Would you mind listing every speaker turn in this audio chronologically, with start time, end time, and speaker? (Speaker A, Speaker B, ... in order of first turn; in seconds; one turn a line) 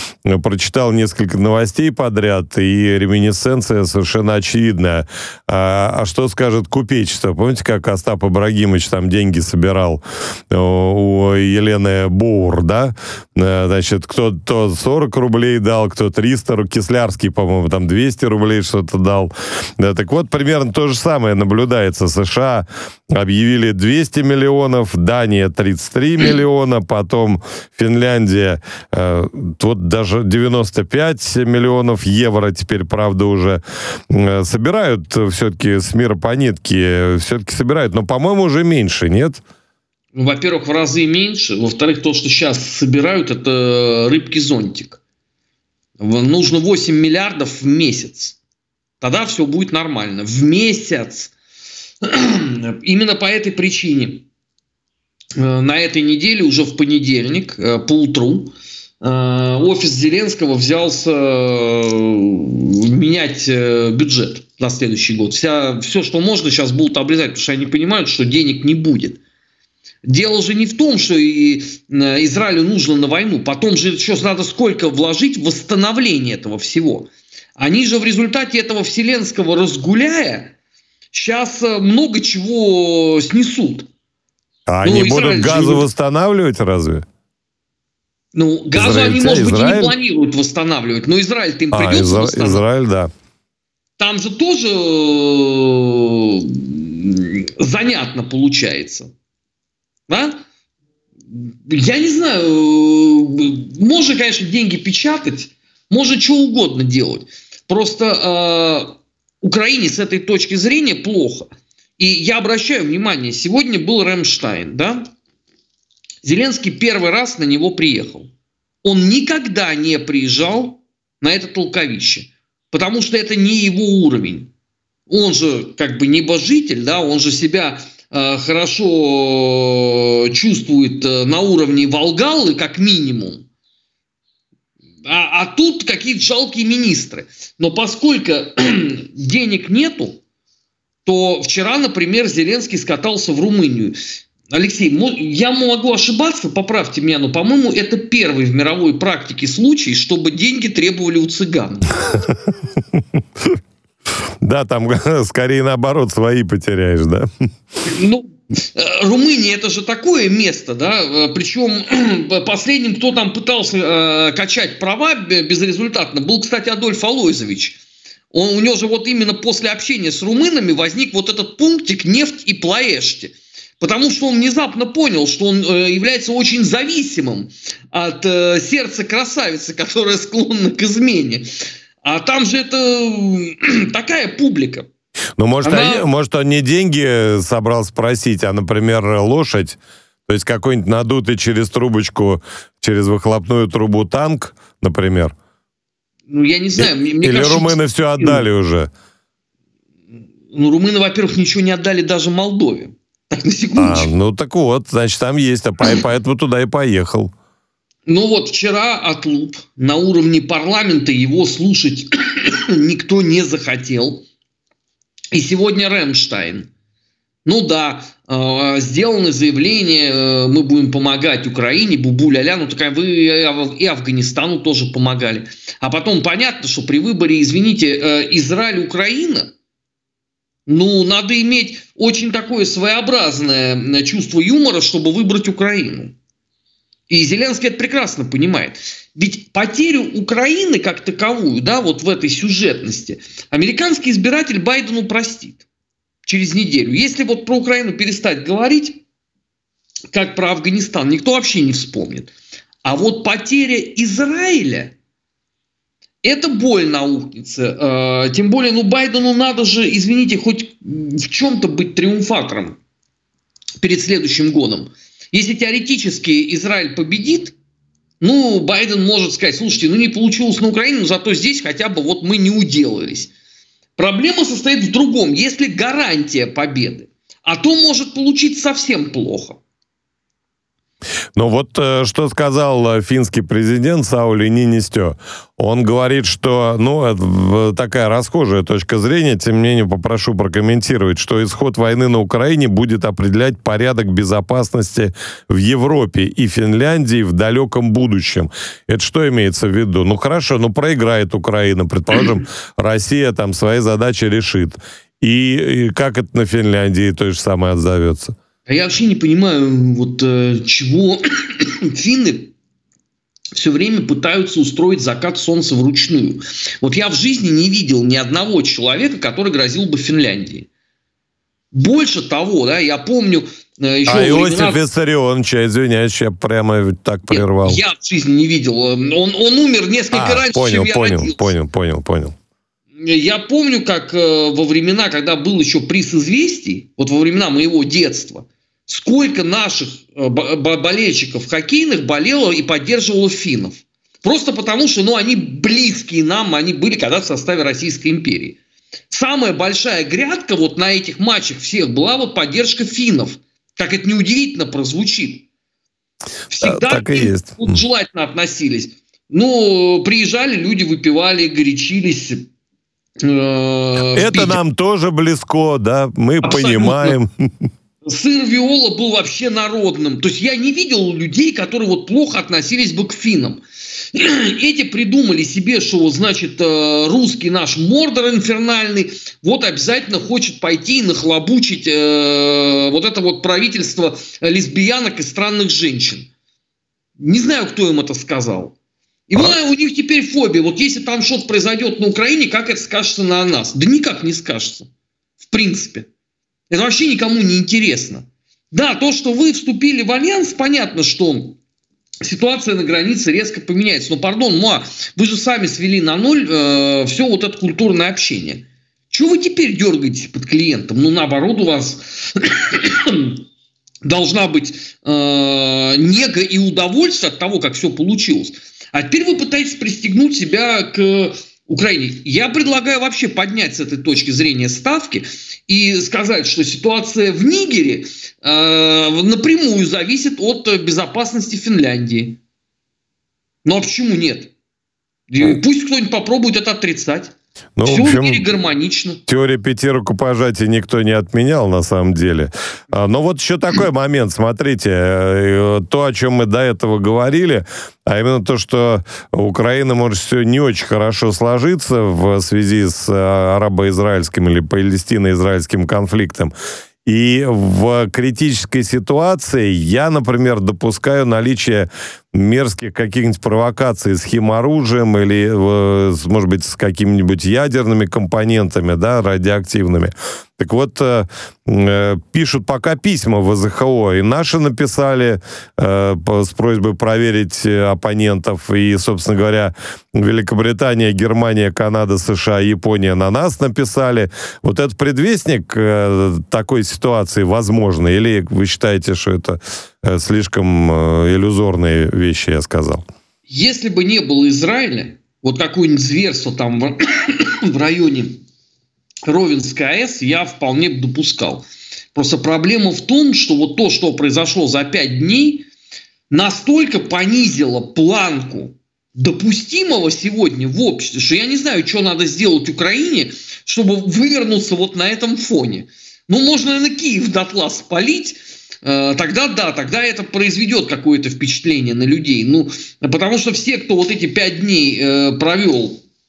Speaker A: 0.2-39.4
Speaker B: 40.1-45.0
Speaker B: 46.0-48.4
Speaker B: 49.0-51.3
Speaker B: 52.0-54.2
Speaker B: 55.4-69.2
Speaker B: 70.1-80.5
Speaker B: 81.1-83.9
Speaker A: 84.7-87.0
Speaker B: 84.8-85.8
Speaker B: 88.3-92.6
Speaker A: 88.8-90.0
Speaker A: 91.7-93.1
Speaker B: 94.0-99.1
Speaker B: 100.1-100.4
Speaker B: 101.3-115.1
Speaker B: 116.2-118.3
Speaker B: 118.8-124.5
Speaker B: 125.1-133.4
Speaker B: 135.1-140.2
Speaker B: 141.0-144.0
Speaker B: 144.5-152.0
Speaker A: 154.4-157.3
Speaker B: 157.8-167.8
Speaker B: 168.3-181.5
Speaker B: 182.0-184.9
Speaker A: 185.4-195.3
Speaker B: 185.6-186.1
Speaker B: 196.3-198.4
Speaker A: 196.8-198.9
Speaker B: 200.5-204.1
Speaker A: 203.8-207.3
Speaker B: 208.1-214.2
Speaker B: 215.3-216.7
Speaker B: 217.4-229.5
Speaker B: 230.7-236.1
Speaker B: 237.1-245.6
Speaker B: 246.2-249.0
Speaker B: 250.1-252.3
Speaker B: 252.8-254.9
Speaker B: 256.2-262.8
Speaker B: 263.8-267.5
Speaker B: 268.2-273.3
Speaker B: 274.0-279.6
Speaker A: 281.3-308.3
Speaker B: 308.7-312.5
Speaker B: 313.5-320.7
Speaker B: 321.7-324.8
Speaker A: 324.1-327.8
Speaker B: 327.3-331.5
Speaker A: 330.1-332.4
Speaker B: 333.0-348.6
Speaker B: 349.1-355.5
Speaker B: 356.5-362.5
Speaker A: 356.6-357.8
Speaker B: 363.2-364.6
Speaker A: 364.1-367.5
Speaker B: 366.4-367.1
Speaker B: 368.0-373.6
Speaker B: 374.1-386.3
Speaker B: 387.2-388.8
Speaker B: 389.3-394.9
Speaker B: 395.4-396.1
Speaker B: 396.7-401.6
Speaker B: 402.2-413.4
Speaker B: 414.0-432.4
Speaker B: 433.6-434.5
Speaker B: 435.3-437.3
Speaker A: 437.8-438.4
Speaker B: 437.8-439.2
Speaker A: 439.3-456.5
Speaker A: 457.0-493.1
Speaker B: 493.5-498.4
Speaker B: 499.3-505.7
Speaker B: 506.3-526.0